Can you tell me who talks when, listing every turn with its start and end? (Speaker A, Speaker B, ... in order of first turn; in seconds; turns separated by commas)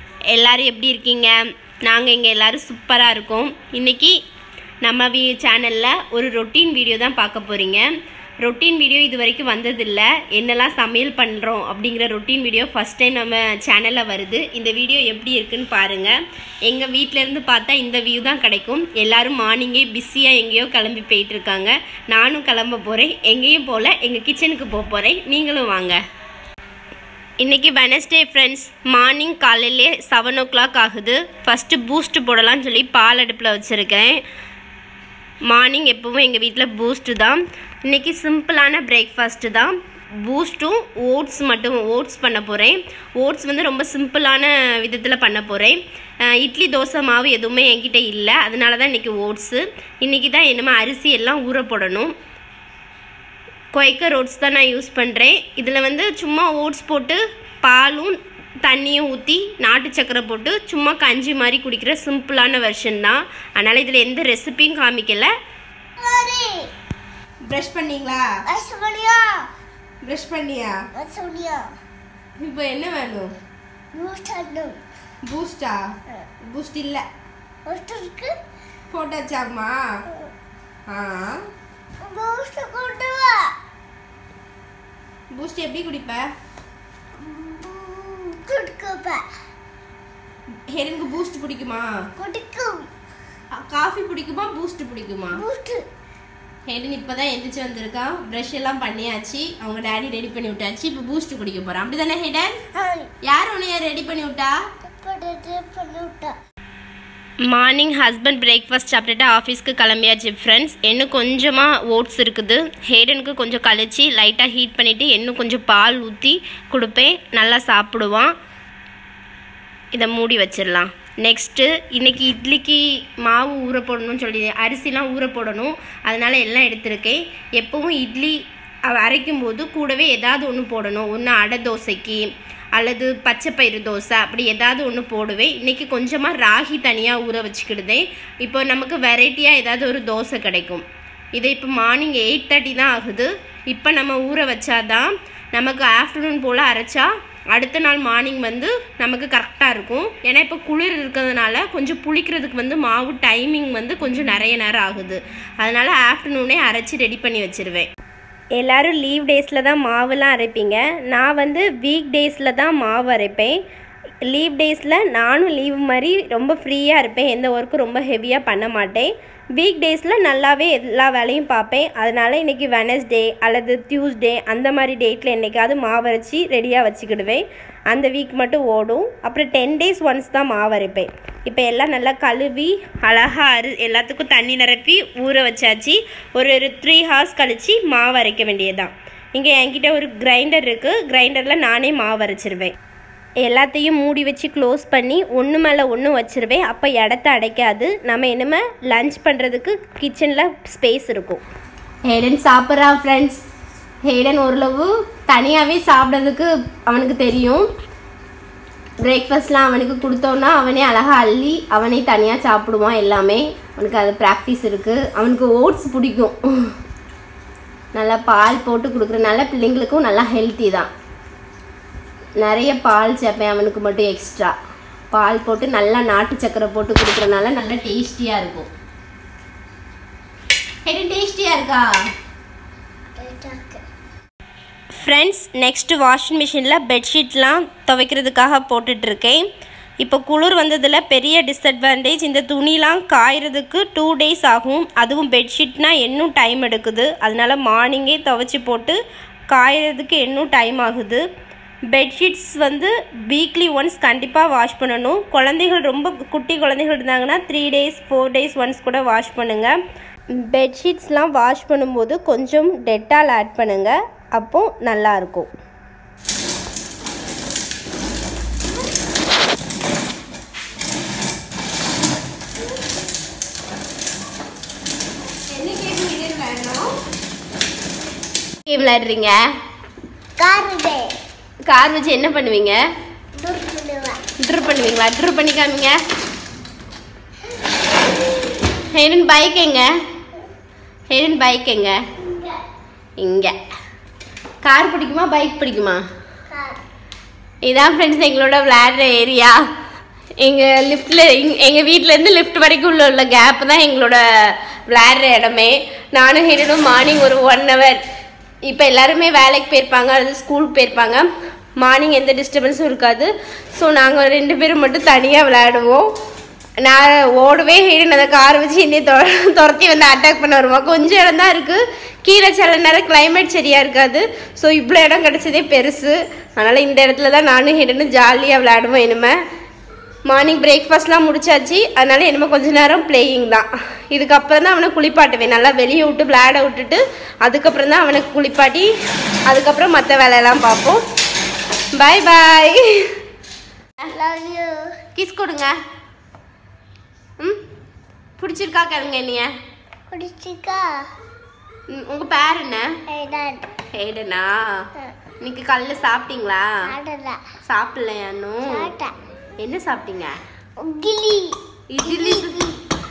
Speaker A: 0.3-4.2, Speaker A: 4.8-7.9, Speaker A: 8.4-16.1, Speaker A: 16.6-26.0, Speaker A: 27.4-34.2, Speaker A: 35.5-45.8, Speaker A: 46.3-52.1, Speaker A: 53.7-65.3, Speaker B: 66.0-66.6, Speaker A: 67.5-68.2, Speaker B: 68.5-69.4, Speaker A: 70.0-70.7, Speaker B: 70.9-71.7, Speaker A: 72.4-73.3, Speaker B: 73.9-74.8, Speaker A: 75.3-75.8, Speaker A: 76.5-77.0, Speaker B: 77.7-78.3, Speaker A: 78.9-79.8, Speaker A: 80.9-81.4, Speaker B: 82.0-83.5, Speaker A: 85.3-86.2, Speaker B: 87.2-89.2, Speaker A: 90.7-91.9, Speaker B: 92.2-92.9, Speaker A: 93.6-95.4, Speaker B: 95.3-95.8, Speaker A: 96.7-102.6, Speaker B: 102.7-103.1, Speaker A: 103.2-104.6, Speaker B: 105.0-106.3, Speaker A: 107.5-118.3, Speaker A: 119.9-157.9, Speaker A: 158.6-163.6, Speaker A: 164.3-192.7, Speaker A: 193.4-201.4, Speaker A: 202.1-203.4, Speaker A: 204.0-207.7, Speaker A: 209.0-216.4, Speaker A: 217.9-220.9, Speaker A: 222.4-224.5, Speaker A: 225.1-228.7, Speaker A: 230.8-231.9, Speaker B: 233.2-233.8, Speaker A: 235.0-239.4, Speaker A: 240.0-249.0, Speaker A: 249.5-251.2, Speaker A: 251.9-259.8, Speaker A: 260.4-265.5, Speaker A: 275.5-276.9, Speaker A: 278.6-279.4, Speaker B: 280.4-281.1, Speaker A: 281.7-282.8, Speaker B: 283.4-284.2, Speaker A: 284.4-286.0, Speaker A: 288.8-289.9, Speaker A: 291.1-292.0, Speaker B: 292.2-292.6, Speaker A: 293.2-293.6, Speaker A: 294.6-296.0, Speaker B: 296.5-296.8, Speaker A: 297.6-299.6, Speaker A: 300.4-308.0, Speaker A: 308.7-311.2, Speaker A: 311.8-316.1, Speaker A: 316.8-329.4, Speaker A: 330.3-338.9, Speaker A: 339.5-341.0, Speaker A: 342.0-342.8, Speaker B: 344.1-344.9, Speaker A: 345.1-345.7, Speaker A: 348.4-349.5, Speaker B: 350.1-350.9, Speaker A: 351.9-352.9, Speaker B: 353.1-353.7, Speaker A: 353.9-354.8, Speaker A: 355.4-356.8, Speaker B: 356.8-357.4, Speaker A: 357.6-358.9, Speaker B: 358.6-359.1, Speaker A: 359.6-360.4, Speaker B: 360.8-362.8, Speaker A: 361.9-362.6